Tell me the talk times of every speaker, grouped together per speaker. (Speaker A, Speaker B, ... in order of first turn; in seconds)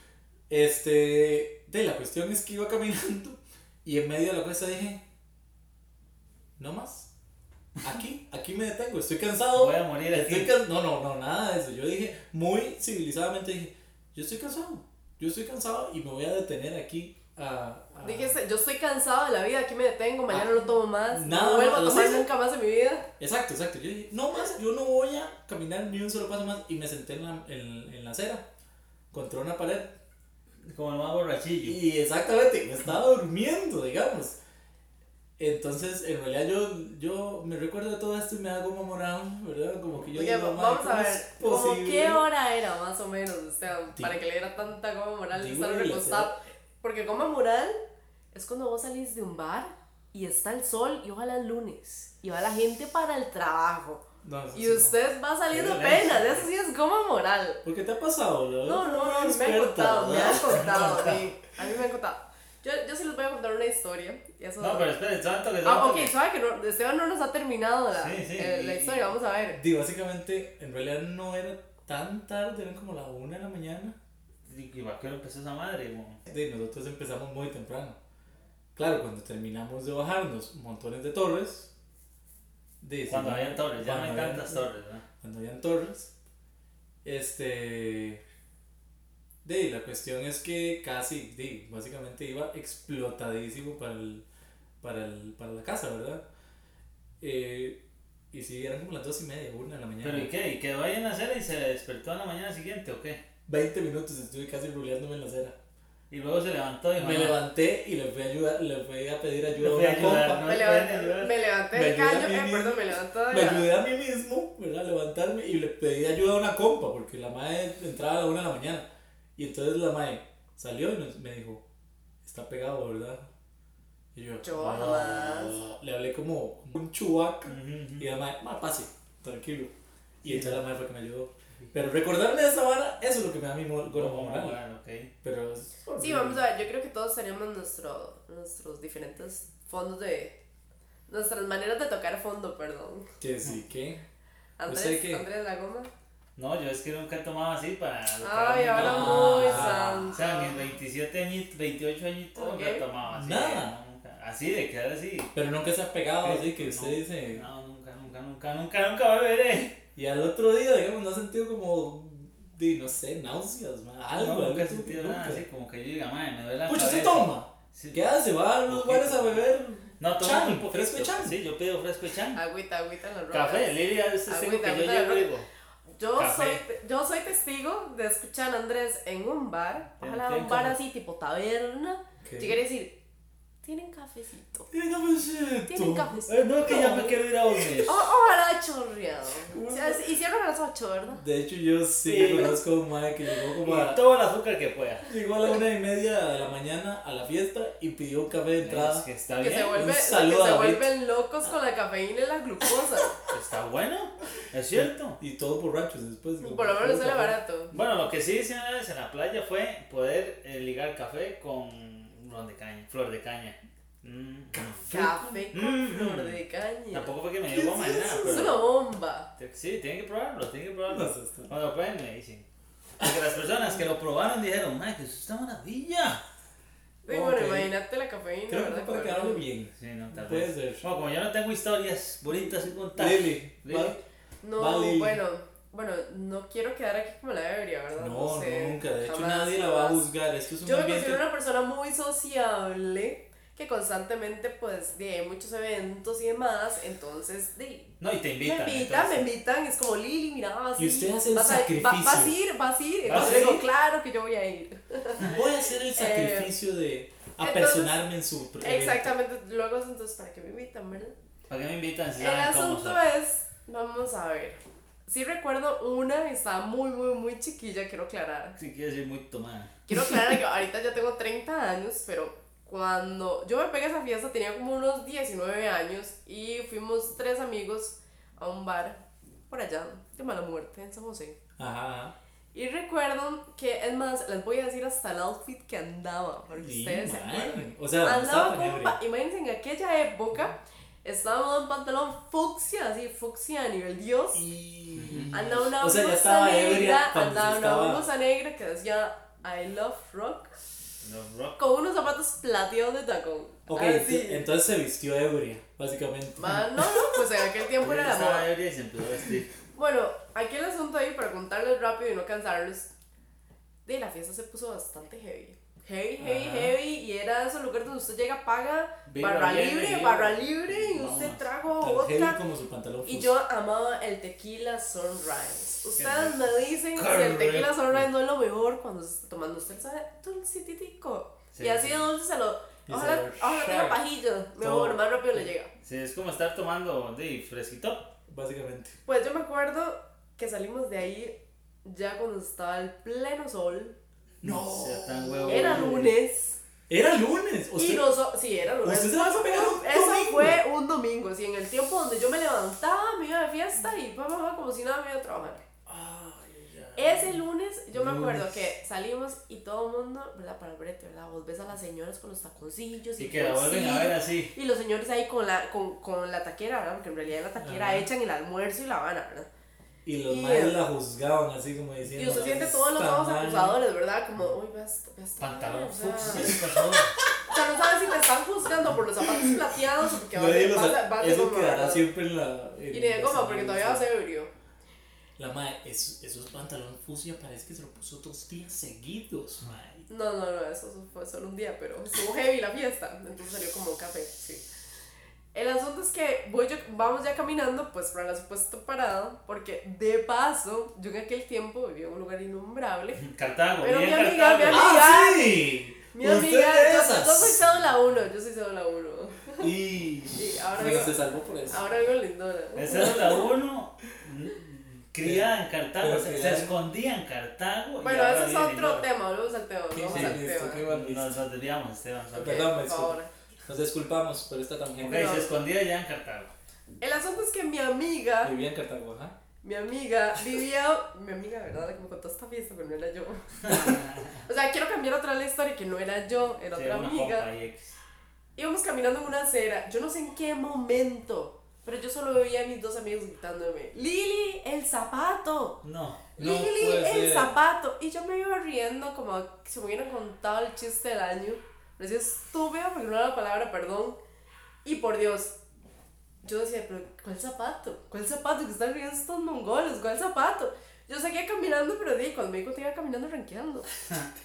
Speaker A: 0.5-5.0, 6.6-7.1, 7.8-18.4, 20.3-22.2, 23.2-28.4, 29.1-29.9, 31.6-34.4, 35.4-42.2, 43.9-44.2, 45.3-46.3, 54.2-55.0, 57.6-61.1, 69.5-74.0, 76.3-78.0, 78.8-81.7, 82.8-84.7, 85.2-86.1, 87.0-88.2, 89.4-94.2, 94.8-96.2, 97.2-97.8, 98.3-100.3, 103.5-105.5, 107.0-110.5, 111.7-121.6, 122.2-123.3, 124.1-129.7, 130.2-134.6, 135.2-136.4, 143.2-144.0, 144.7-145.2, 148.7-150.2, 153.1-153.7, 155.3-157.4, 159.9-165.4, 166.7-171.4, 182.2-182.6, 184.7-187.8, 189.5-190.0, 191.1-194.0, 195.1-199.1, 199.7-200.9, 204.7-207.4, 220.9-221.5, 227.1-227.7, 228.5-230.8, 232.9-234.0, 234.6-235.2, 238.0-241.2, 250.8-252.4, 253.1-253.6, 255.2-259.1, 281.6-282.1, 286.5-289.0, 294.3-298.0, 303.7-306.6, 316.2-316.7, 321.8-323.3, 332.9-334.0, 334.6-335.4, 338.3-338.9, 344.4-346.1, 346.9-348.1, 348.8-350.6, 355.9-357.2, 357.9-358.5, 367.6-368.1, 370.1-373.8, 379.2-379.6, 380.3-384.1, 385.4-390.0, 404.7-407.7, 409.6-411.8, 415.2-416.8, 419.9-421.4, 422.4-425.4, 428.4-429.3, 446.4-447.6
Speaker B: 9.5-10.5, 30.6-31.8, 55.5-56.5, 60.6-61.2, 64.6-66.1, 67.9-69.0, 74.4-76.2, 83.1-85.0, 100.0-103.2, 106.1-107.4, 109.6-111.3, 127.5-128.1, 130.2-130.6, 133.9-135.1, 146.4-155.3, 156.2-159.8, 164.1-168.1, 168.7-169.4, 170.0-172.4, 173.3-175.4, 176.2-176.6, 180.0-180.8, 186.3-188.1, 192.0-192.6, 193.6-195.1, 198.6-199.9, 203.3-205.2, 207.7-218.6, 219.4-222.5, 223.0-226.2, 229.8-234.0, 248.0-249.2, 253.1-253.7, 261.5-263.0, 268.6-269.7, 294.9-295.3, 301.0-301.6, 307.8-309.5, 319.1-321.5, 326.0-328.0, 331.5-332.1, 335.8-338.1, 344.4-346.1, 363.2-364.5, 375.4-377.1, 403.2-405.0, 412.7-419.1, 420.1-422.7, 425.0-426.5, 433.6-434.4, 436.7-438.0, 445.8-446.2
Speaker C: 18.0-23.1, 40.1-47.8, 48.3-54.0, 54.5-57.6, 58.6-64.9, 65.6-69.6, 110.1-113.7, 124.4-125.6, 136.0-140.3, 141.1-143.1, 144.6-145.9, 148.2-150.6, 152.3-152.8, 172.3-175.3, 176.0-182.9, 183.6-184.7, 185.7-186.3, 187.8-191.2, 192.1-192.6, 199.4-203.2, 206.4-207.7, 214.9-219.3, 227.0-229.5, 234.4-240.0, 240.6-255.4, 255.9-256.5, 257.4-257.9, 258.6-261.1, 262.2-268.6, 269.9-281.4, 282.5-294.4, 295.3-300.5, 301.6-304.4, 306.4-308.5, 309.7-312.9, 313.9-322.4, 323.1-335.7, 339.1-343.9, 345.4-346.6, 347.8-355.6, 356.9-369.5, 370.3-370.8, 372.1-376.6, 377.5-382.1, 382.9-384.5, 390.1-394.6, 395.5-409.7, 410.4-413.5, 418.0-420.8, 422.3-423.3, 425.1-425.6, 427.0-428.5, 429.6-437.5, 438.6-445.8, 446.4-454.2, 454.8-455.5, 456.4-463.9